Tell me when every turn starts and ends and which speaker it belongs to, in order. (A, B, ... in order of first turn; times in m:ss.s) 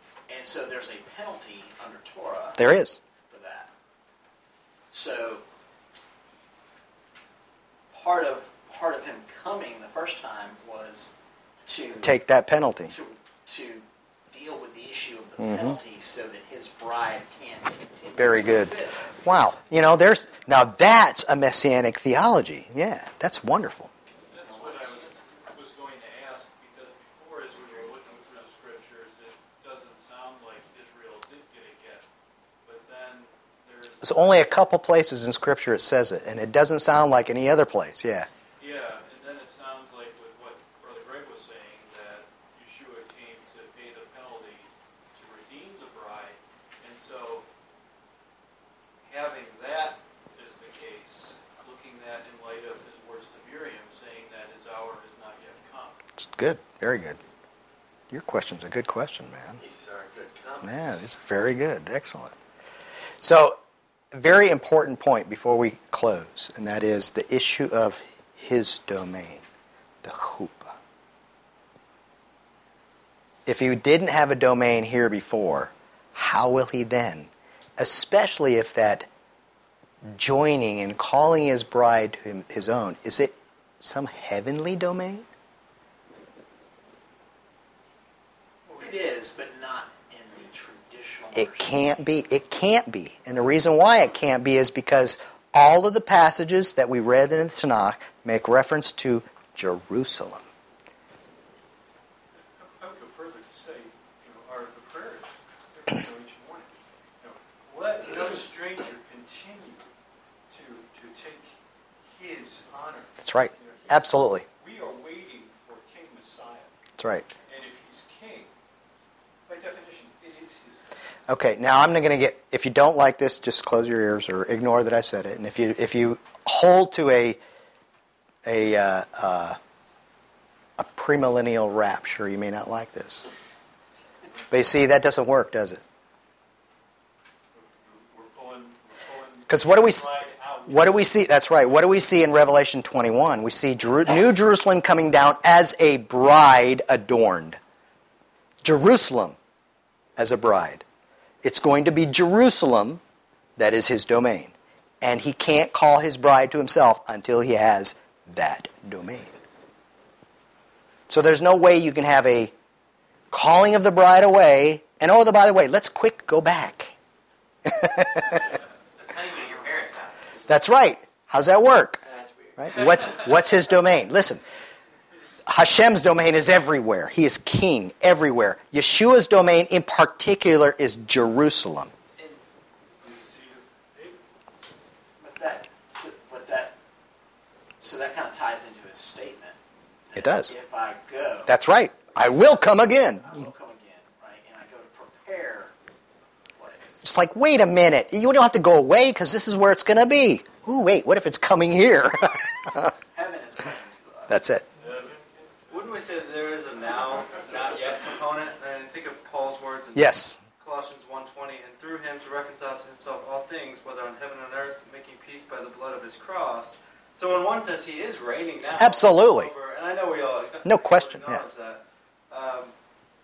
0:00.3-0:02.6 A
0:02.6-0:03.0 B
0:03.3-0:03.7 A
0:04.9-0:05.4 A
0:07.9-0:11.1 A
0:11.6-0:12.1 A
0:12.0-0:13.0 B
0:12.9-0:19.1 A
0:15.4-0:15.8 B
0:18.2-0:23.9 B
0:24.3-0:32.0 C
0:24.4-0:25.6 A
0:32.6-0:34.6 C
0:34.0-0:38.3 B
0:38.6-0:47.4 C
0:49.0-0:56.0 C
0:56.2-0:57.2 B
0:58.1-0:59.6 B
0:59.6-1:01.0 D
1:00.6-1:02.3 B
1:03.2-1:03.6 B
1:04.1-1:09.4 B
1:10.0-1:10.7 B
1:13.4-1:19.1 B
1:20.0-1:25.2 B
1:28.7-1:29.0 C
1:28.7-1:31.8 A
1:31.3-1:40.4 B
1:42.3-1:49.9 C
1:50.5-1:56.7 C
1:53.2-1:54.4 B
1:57.0-1:57.3 B
1:57.5-1:58.5 C
1:59.5-2:00.9 C
2:01.3-2:07.4 B
2:08.4-2:09.6 B
2:10.8-2:13.3 B
2:14.5-2:15.8 B
2:17.5-2:21.2 C
2:19.5-2:20.0 B
2:20.7-2:27.6 B
2:28.6-2:29.4 B
2:30.2-2:30.8 B
2:31.4-2:33.0 B
2:33.6-2:39.4 B
2:41.1-2:42.5 B
2:43.3-2:46.9 B
2:47.6-2:48.4 B
2:48.3-2:50.3 E
2:50.5-2:52.0 B
2:52.0-2:53.2 D
2:52.6-2:54.4 B
2:55.5-3:01.9 B
3:03.0-3:04.2 C
3:05.2-3:06.8 A
3:07.8-3:09.6 A
3:10.1-3:11.6 A
3:10.1-3:10.5 B
3:11.4-3:13.3 B
3:13.2-3:15.7 A
3:16.5-3:17.0 A
3:17.0-3:22.9 B
3:23.1-3:24.5 A
3:24.3-3:24.6 B
3:24.8-3:25.7 C
3:25.7-3:42.7 F
3:29.9-3:30.4 B
3:38.8-3:39.5 B
3:40.6-3:41.4 B